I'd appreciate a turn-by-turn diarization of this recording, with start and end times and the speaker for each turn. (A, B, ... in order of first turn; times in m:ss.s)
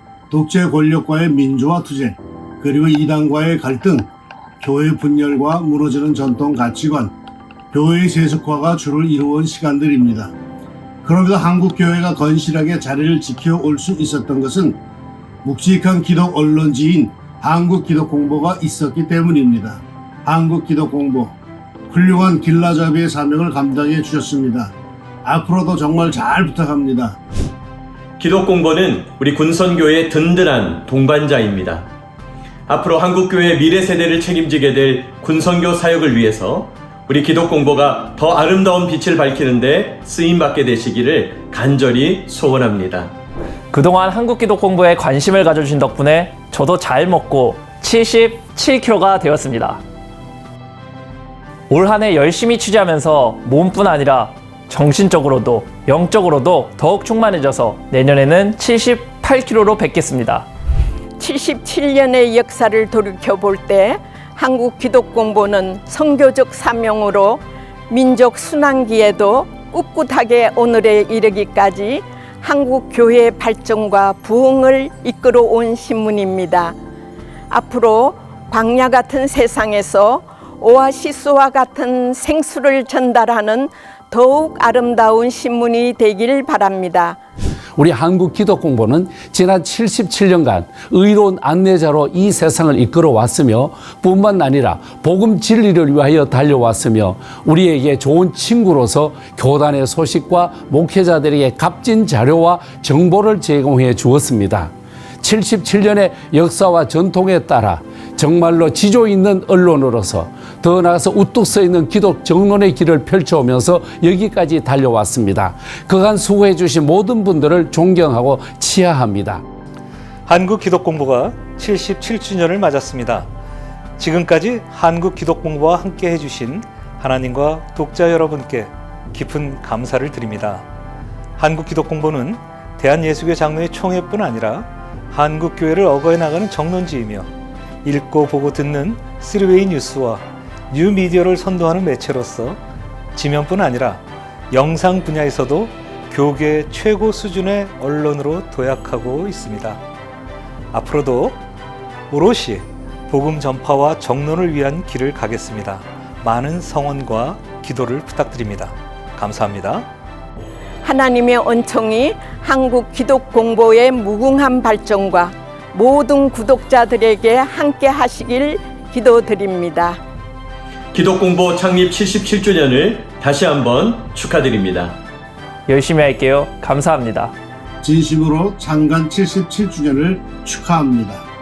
0:00.3-0:04.1 A
0:04.6-0:07.1 A
0:07.7-0:10.3 A
0:11.0-0:14.8 A
0:15.4-0:21.4 A
0:21.9-0:24.7 A
0:25.2-0:27.2 A
0:28.2-0:31.9 B
0:32.7-0:43.1 B
0:43.7-0:49.8 C
0:51.7-1:00.5 C
1:01.2-1:16.8 D
1:17.5-1:27.2 D
1:27.8-1:59.4 E
2:00.3-2:03.3 F
2:04.0-2:10.6 F
2:11.4-2:17.3 F
2:17.8-2:22.6 F
2:23.2-2:24.0 F
2:24.5-2:29.8 F
2:30.7-2:31.4 F
2:32.1-2:39.8 F
2:40.8-2:50.0 D
2:50.9-2:55.0 B
2:55.7-2:57.3 C
2:57.8-3:01.2 A